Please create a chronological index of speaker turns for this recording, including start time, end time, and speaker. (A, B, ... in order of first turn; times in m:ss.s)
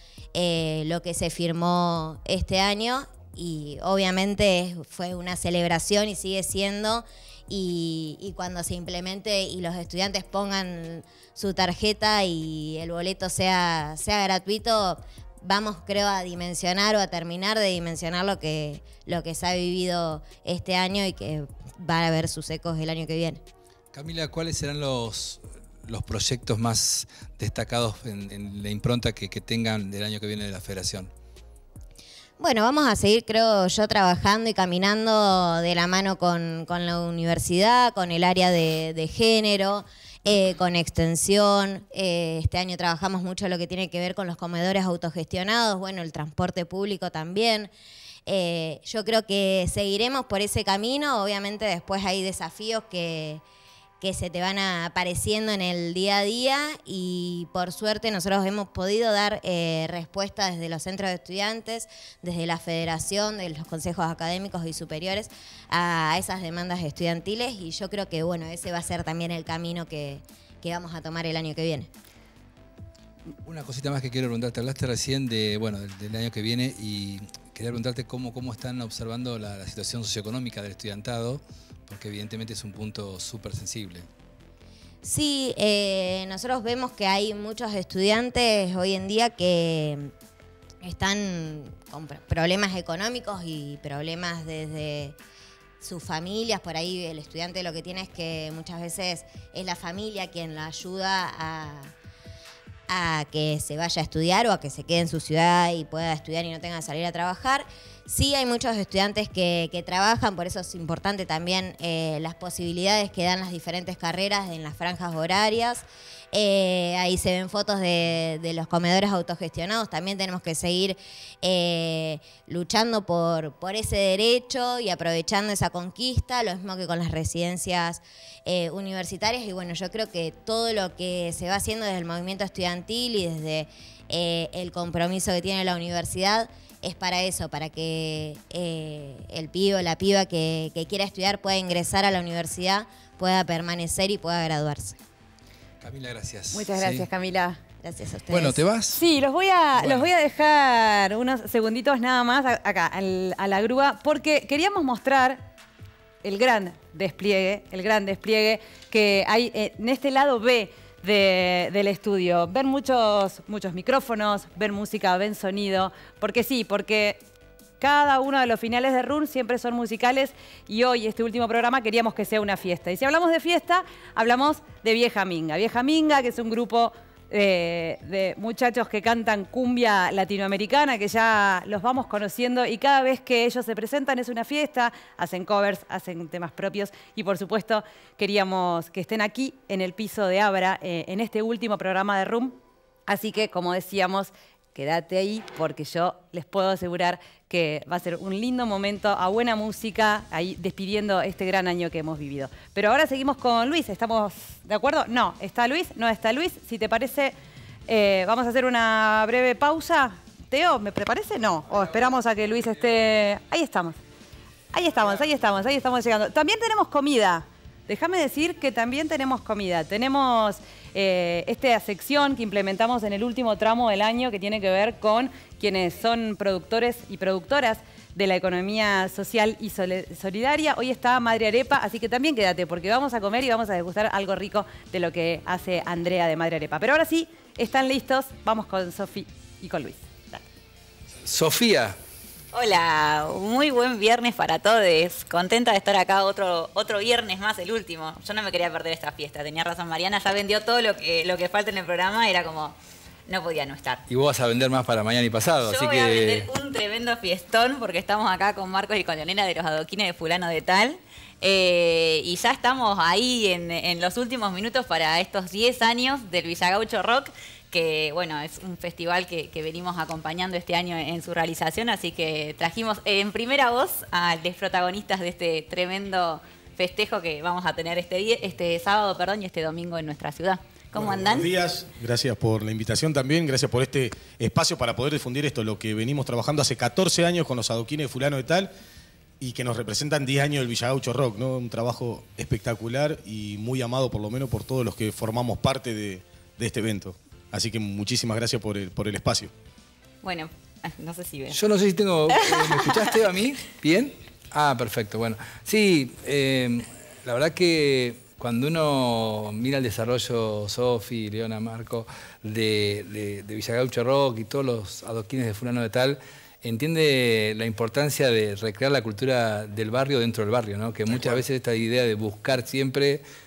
0:00.3-0:23.4 A
0:23.9-0:31.1 B
0:32.4-0:47.7 A
0:48.2-0:53.4 A
0:54.0-1:11.9 A
1:13.4-1:24.1 B
1:25.0-1:30.1 A
1:30.8-1:35.2 A
1:35.8-1:41.9 A
1:42.9-2:25.0 A
2:25.8-2:27.1 B
2:26.5-2:27.6 C
2:27.8-2:28.6 A
2:28.3-2:29.0 B
2:28.9-2:35.4 C
2:29.8-2:30.1 B
2:36.2-2:47.2 C
2:47.8-3:27.3 C
3:27.9-3:34.0 C
3:34.7-4:00.4 C
4:01.2-4:02.0 B
4:02.5-4:12.7 D
4:13.3-4:14.0 D
4:14.1-4:16.5 B
4:15.6-4:41.5 D
4:40.9-4:48.7 E
4:49.4-4:59.5 E
5:00.2-5:01.6 D
5:01.5-5:23.2 B
5:02.3-5:03.1 D
5:21.1-5:21.4 E